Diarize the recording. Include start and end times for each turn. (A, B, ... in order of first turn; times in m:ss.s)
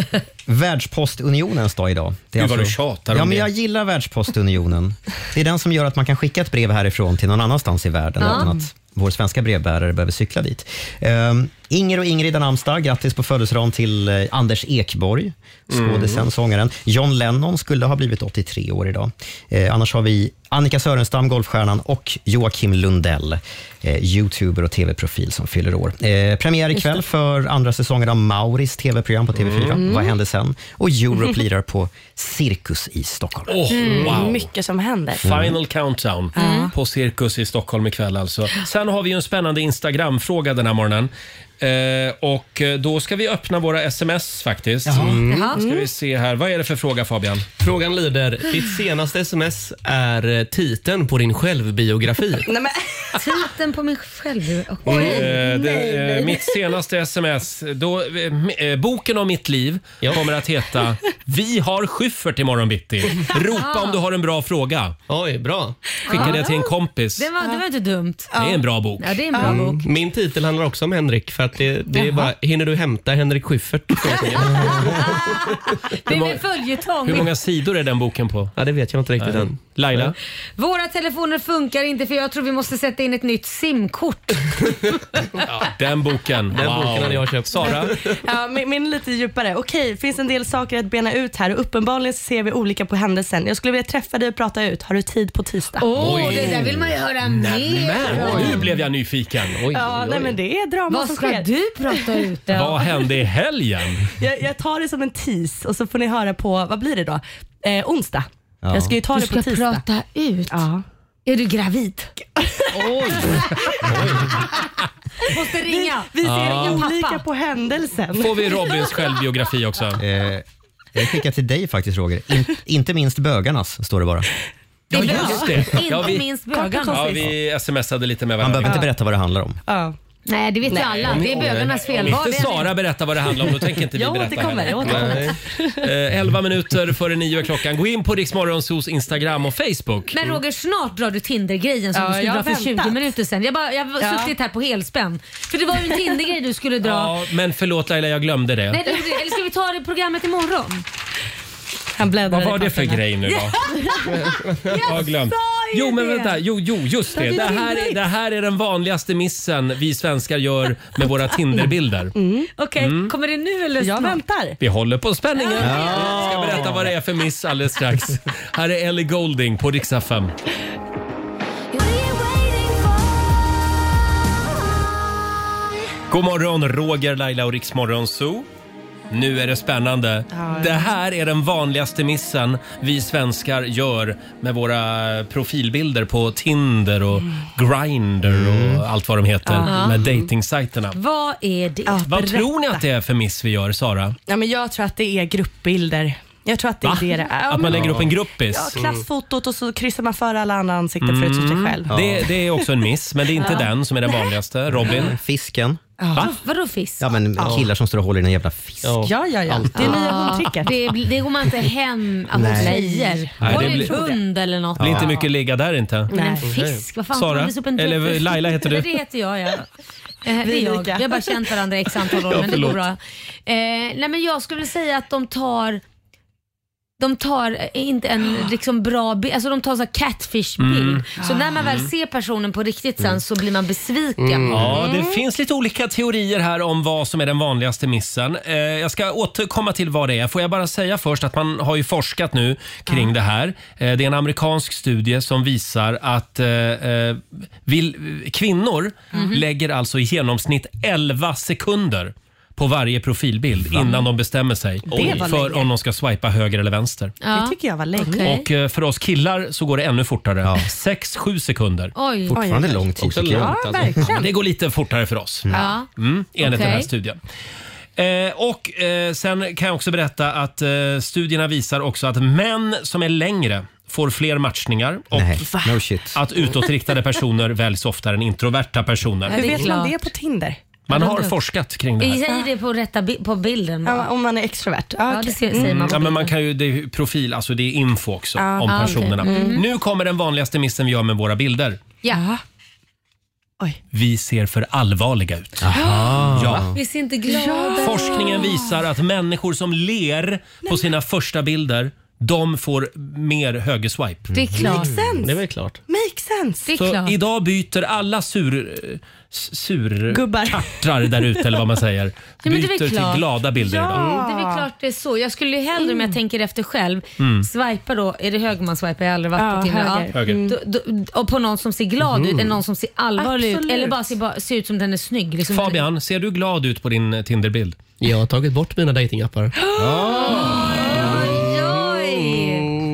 0:00.4-0:33.6 A
0:02.4-0:03.5 B
0:08.2-0:08.5 C
0:08.2-0:08.6 D
0:15.7-0:16.2 B
0:26.7-0:27.0 D
0:29.4-0:29.8 B
0:29.8-0:30.1 D
0:33.5-0:34.5 B
0:33.7-0:34.1 C
0:33.8-0:35.4 D
0:35.2-0:47.5 B
0:35.2-0:35.5 A
0:36.3-0:36.7 D
0:36.4-0:36.7 C
0:44.9-0:45.2 A
0:44.9-0:45.5 E
0:45.3-0:45.6 C
0:45.6-0:45.9 D
0:47.6-0:52.5 E
0:52.4-0:53.1 D
0:53.1-0:55.2 C
0:54.9-0:56.6 D
0:54.9-1:05.0 B
1:03.6-1:04.0 C
1:05.1-1:05.8 E
1:06.1-1:06.6 C
1:06.1-1:06.6 D
1:06.1-1:07.3 B
1:07.2-1:08.3 C
1:08.3-1:08.6 D
1:08.4-1:09.2 B
1:09.0-1:09.8 C
1:09.3-1:09.6 D
1:09.4-1:15.2 E
1:11.9-1:12.3 D
1:14.6-1:15.4 C
1:16.0-1:17.3 C
1:16.0-1:16.4 B
1:17.0-1:18.5 B
1:18.6-1:20.1 E
1:19.2-1:20.2 B
1:20.6-1:24.5 C
1:25.4-1:28.0 B
1:26.5-1:28.1 E
1:28.2-1:36.5 D
1:35.8-1:38.7 C
1:35.9-1:36.7 B
1:37.2-1:40.3 B
1:39.7-1:42.5 D
1:40.9-1:42.8 C
1:42.5-1:44.1 B
1:44.2-1:49.8 D
1:48.6-1:49.0 A
1:49.1-1:50.6 C
1:50.5-1:50.8 D
1:51.2-1:52.2 C
1:52.7-1:54.5 B
1:55.2-1:57.2 C
1:55.2-1:58.9 D
1:56.2-1:56.8 B
1:58.2-2:00.0 B
2:00.0-2:04.3 A
2:04.9-2:06.2 B
2:04.9-2:07.2 C
2:04.9-2:05.9 D
2:06.5-2:07.3 D
2:06.9-2:08.8 B
2:08.4-2:09.6 A
2:09.7-2:10.0 D
2:10.3-2:12.7 C
2:10.7-2:11.2 D
2:11.1-2:11.8 E
2:11.3-2:20.2 B
2:13.9-2:15.8 D
2:14.8-2:15.3 E
2:20.1-2:27.1 C
2:21.9-2:23.0 D
2:24.0-2:24.3 D
2:26.8-2:28.8 B
2:28.7-2:30.8 C
2:32.0-2:33.1 D
2:32.3-2:33.6 B
2:33.3-2:36.4 C
2:34.2-2:34.5 E
2:34.8-2:42.1 B
2:37.2-2:38.0 D
2:37.2-2:37.6 C
2:41.6-2:42.5 D
2:42.5-2:44.2 C
2:42.8-2:43.1 B
2:43.8-2:44.6 D
2:44.6-2:50.3 B
2:45.4-2:46.4 C
2:45.6-2:46.9 A
2:51.7-2:53.1 D
2:56.1-2:58.4 B
2:59.1-3:11.0 B
3:00.3-3:00.9 D
3:08.2-3:08.8 A
3:09.4-3:10.1 D
3:09.6-3:10.0 C
3:10.9-3:12.3 C
3:11.9-3:12.8 D
3:12.1-3:14.2 B
3:14.3-3:21.9 D
3:16.8-3:18.8 B
3:17.7-3:18.1 E
3:18.7-3:19.0 E
3:21.0-3:25.1 B
3:21.9-3:22.2 A
3:23.4-3:24.4 D
3:24.8-3:25.8 A
3:26.0-3:26.3 D
3:26.1-3:27.1 C
3:27.0-3:29.1 A
3:27.4-3:27.7 E
3:28.8-3:29.9 E
3:29.0-3:30.7 D
3:29.7-3:35.1 C
3:32.3-3:32.8 A
3:32.4-3:34.2 D
3:33.4-3:34.0 B
3:34.8-3:35.1 A
3:34.8-3:36.1 B
3:36.1-3:39.6 C
3:36.1-3:36.5 D
3:36.4-3:36.8 E
3:37.1-3:38.9 B
3:40.2-3:45.8 C
3:40.4-3:41.5 D
3:42.3-3:42.8 B
3:47.0-3:54.6 C
3:50.6-3:51.1 B
3:51.2-3:51.6 D
3:51.6-3:51.9 B
3:54.2-3:54.8 E
3:54.5-4:17.2 B
3:54.6-3:55.2 D
4:09.1-4:09.4 C
4:14.9-4:15.7 D
4:17.2-4:18.4 C
4:17.3-4:18.3 D
4:18.2-4:21.9 B
4:21.9-4:22.4 C
4:22.3-4:23.6 A
4:22.3-4:24.3 D
4:23.0-4:24.0 E
4:24.1-4:27.2 B
4:25.5-4:25.9 C
4:26.4-4:26.9 C
4:28.0-4:35.4 B
4:35.1-4:36.2 A
4:35.4-4:35.8 D
4:36.1-4:39.6 B
4:39.3-4:40.1 C
4:39.3-4:41.3 D
4:40.9-4:42.2 B
4:40.9-4:41.3 C
4:42.0-4:44.1 C
4:42.2-4:42.5 D
4:43.8-4:46.3 D
4:45.1-4:46.3 C
4:45.7-4:51.8 B
4:48.4-4:49.6 D
4:48.6-4:49.6 C
4:52.1-4:52.4 D
4:53.9-4:55.7 B
4:55.6-4:56.8 A
4:55.7-4:56.3 D
4:56.3-4:56.7 B
4:56.7-4:58.5 C
4:57.2-4:58.8 D
4:57.8-5:04.3 B
5:04.3-5:05.1 A
5:04.3-5:04.9 C
5:04.6-5:05.4 D
5:05.2-5:05.8 E
5:05.9-5:06.7 D
5:06.6-5:07.1 C
5:06.8-5:14.1 B
5:10.1-5:11.4 D
5:12.4-5:13.2 C
5:13.5-5:14.6 D
5:14.0-5:25.8 C
5:15.8-5:16.2 D
5:17.2-5:17.5 B
5:19.3-5:20.6 D
5:20.1-5:20.4 B
5:22.1-5:22.6 E
5:23.2-5:24.1 D
5:25.5-5:27.8 B
5:28.0-5:29.5 E
5:29.6-5:31.1 D
5:29.8-5:31.0 A
5:30.2-5:32.7 C